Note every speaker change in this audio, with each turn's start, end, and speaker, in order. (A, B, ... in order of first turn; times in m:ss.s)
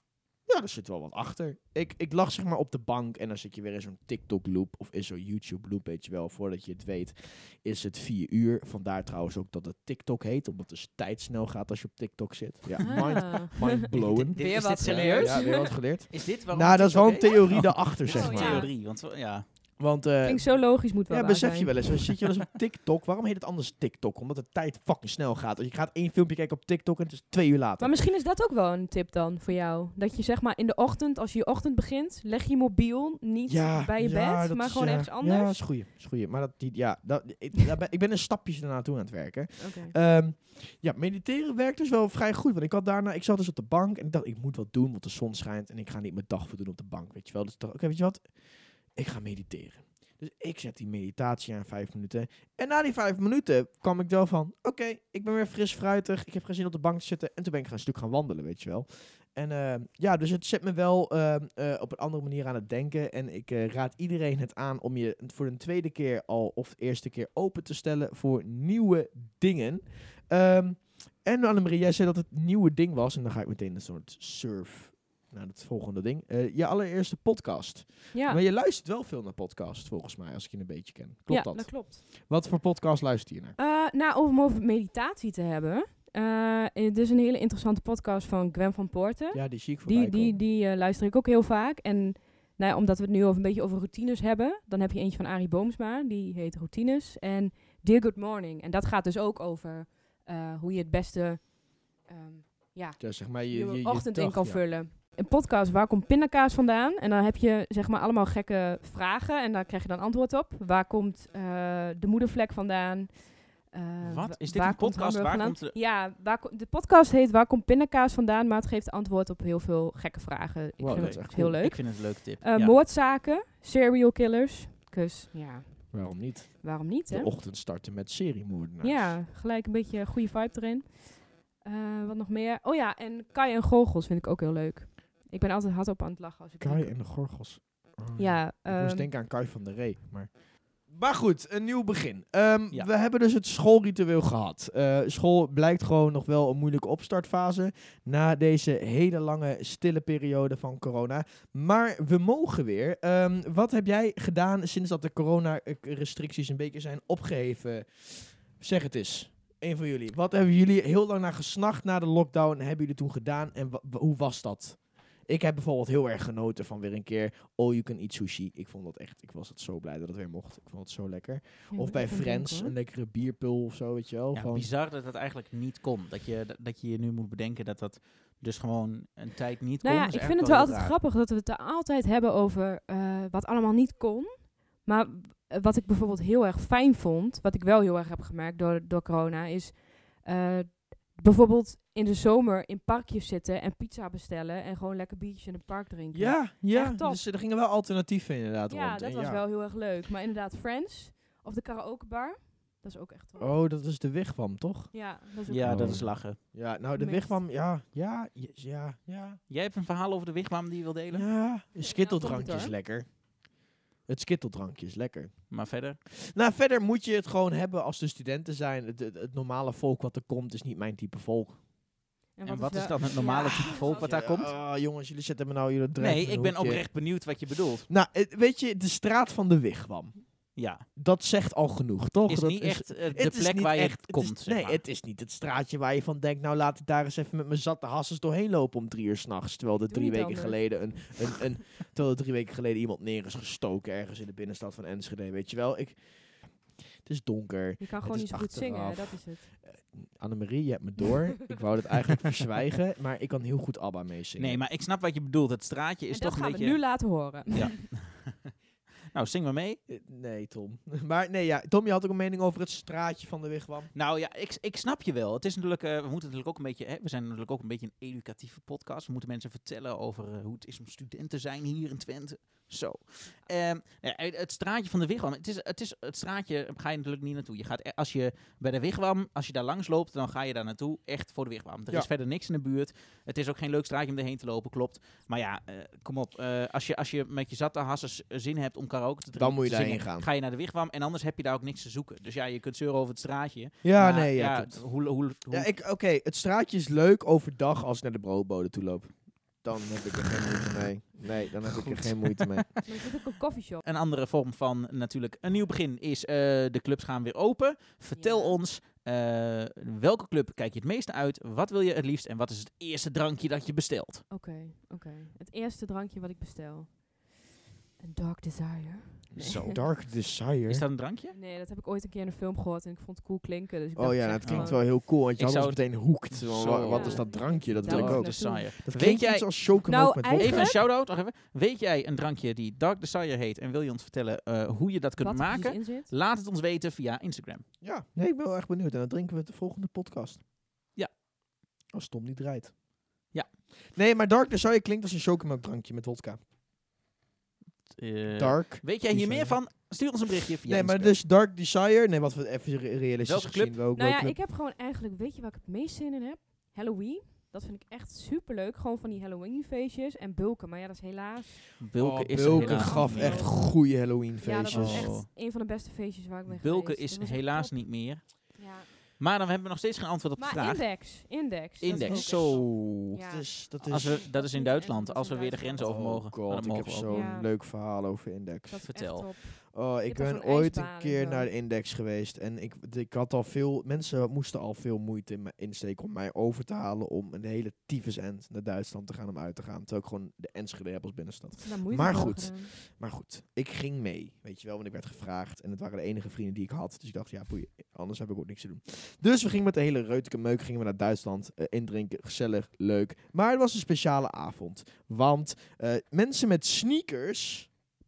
0:00.4-0:18.7 A
0:12.8-0:19.4 B
0:12.8-0:15.7 C
0:18.0-0:18.7 C
0:19.8-0:28.0 A
0:20.2-0:22.2 C
0:27.8-0:35.6 C
0:33.5-0:48.3 A
0:39.6-0:40.0 C
0:48.9-1:23.6 A
1:18.1-1:18.4 C
1:21.3-1:22.0 C
1:23.6-2:07.3 C
1:29.3-1:30.4 A
1:43.0-1:44.6 A
1:54.0-1:55.7 B
2:00.8-2:01.6 A
2:00.9-2:02.8 B
2:05.9-2:09.1 A
2:08.8-2:17.0 C
2:16.6-2:54.7 A
2:18.2-2:19.1 C
2:51.7-2:52.7 C
2:54.3-3:01.0 B
2:59.8-3:17.2 C
3:16.1-3:19.4 A
3:18.7-3:23.5 C
3:23.4-3:24.9 A
3:24.9-3:26.1 C
3:25.5-3:26.4 B
3:25.6-3:29.4 A
3:26.9-3:27.4 C
3:29.5-3:31.3 B
3:31.1-3:33.2 A
3:31.8-3:32.7 C
3:34.1-3:35.6 A
3:35.5-3:36.0 B
3:36.2-3:41.6 A
3:42.4-3:44.1 C
3:42.4-3:44.5 B
3:43.7-3:46.9 A
3:46.0-3:47.9 B
3:47.9-4:06.0 A
3:50.5-3:50.8 B
3:52.3-3:54.8 B
3:59.9-4:00.8 C
4:06.5-4:14.6 A
4:07.8-4:09.5 C
4:14.4-4:18.5 B
4:16.1-4:17.7 C
4:19.1-4:19.8 B
4:19.9-4:23.9 A
4:23.9-4:55.7 B
4:49.3-4:50.3 A
4:53.8-4:54.9 A
4:55.5-5:02.8 A
5:01.6-5:02.8 B
5:02.8-5:03.8 C
5:03.8-5:14.2 B
5:08.2-5:08.6 C
5:14.3-5:17.4 C
5:18.0-5:19.8 C
5:19.3-5:20.8 A
5:19.4-5:19.7 B
5:20.7-5:21.4 B
5:21.3-5:24.8 C
5:24.0-5:30.8 A
5:24.4-5:29.5 B
5:26.9-5:28.7 C
5:29.9-5:30.8 C
5:30.4-5:37.6 B
5:35.2-5:36.1 C
5:37.8-5:40.4 A
5:41.9-5:42.8 A
5:43.9-5:46.4 A
5:47.9-5:51.2 B
5:48.4-5:49.7 A
5:50.6-5:54.4 A
5:53.2-5:53.8 B
5:54.0-6:01.8 C
6:01.8-6:03.5 B
6:02.0-6:05.1 A
6:02.4-6:03.8 C
6:04.4-6:08.9 C
6:04.7-6:05.3 B
6:06.5-6:08.6 B
6:09.2-6:10.9 B
6:10.4-6:16.2 C
6:11.8-6:13.1 B
6:11.9-6:12.7 A
6:13.2-6:14.2 A
6:13.8-6:17.2 B
6:15.8-6:47.7 A
6:17.1-6:17.5 C
6:18.7-6:21.5 C
6:18.9-6:19.3 B
6:31.6-6:32.7 C